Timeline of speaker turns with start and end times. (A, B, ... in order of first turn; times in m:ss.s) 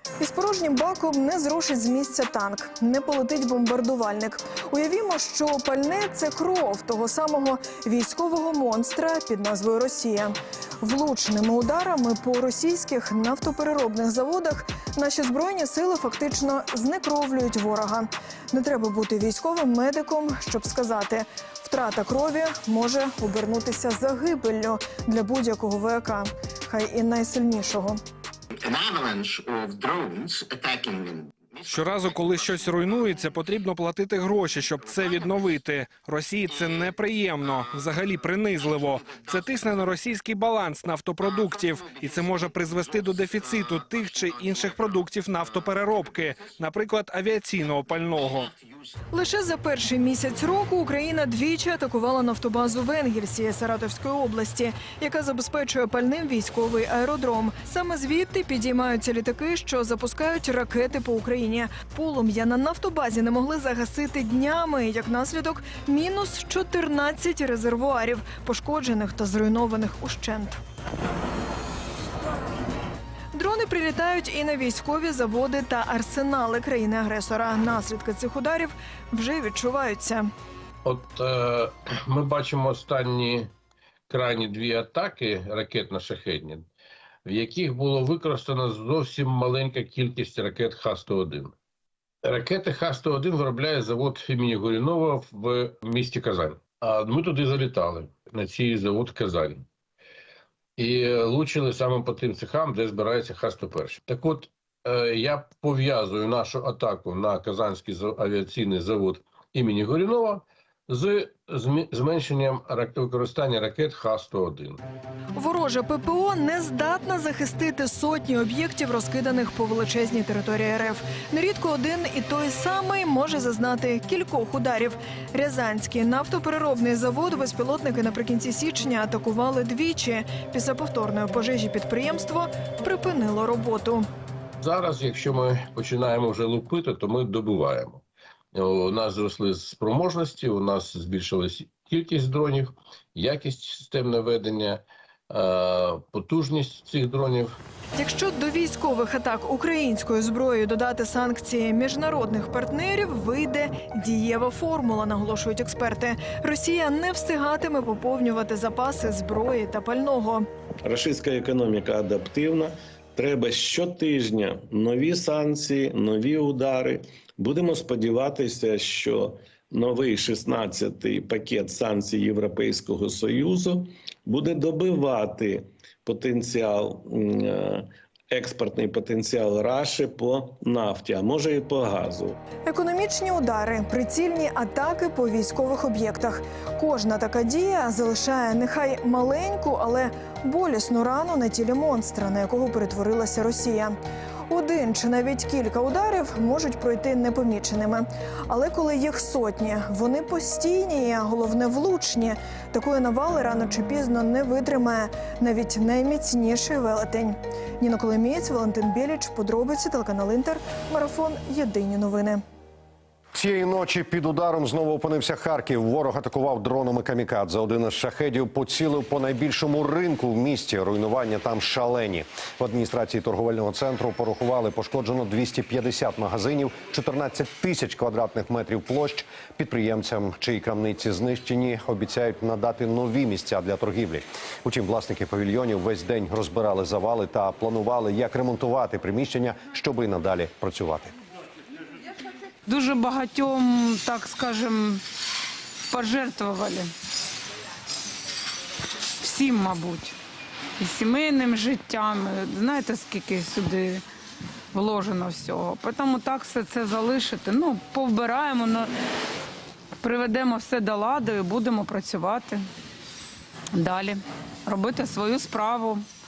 0:00.2-0:28.0 A
0:28.7-0:31.2 B
0:31.6-0:48.5 C
0:49.1-1:10.6 A
1:13.3-1:20.3 A
1:20.8-1:23.5 D
1:24.1-1:26.7 D
1:27.2-1:31.5 D
1:32.2-1:39.6 D
1:40.8-1:54.8 D
1:55.3-2:14.1 A
2:14.6-2:27.6 D
2:28.0-2:40.4 A
2:40.8-3:02.4 E
3:02.6-3:14.0 A
3:14.5-3:32.4 A
3:33.3-4:01.1 F
4:02.7-4:05.0 G
4:05.9-4:06.9 G
4:09.2-4:10.1 G
4:10.8-4:14.0 G
4:14.7-4:18.9 G
4:20.0-4:22.6 G
4:23.7-4:26.0 G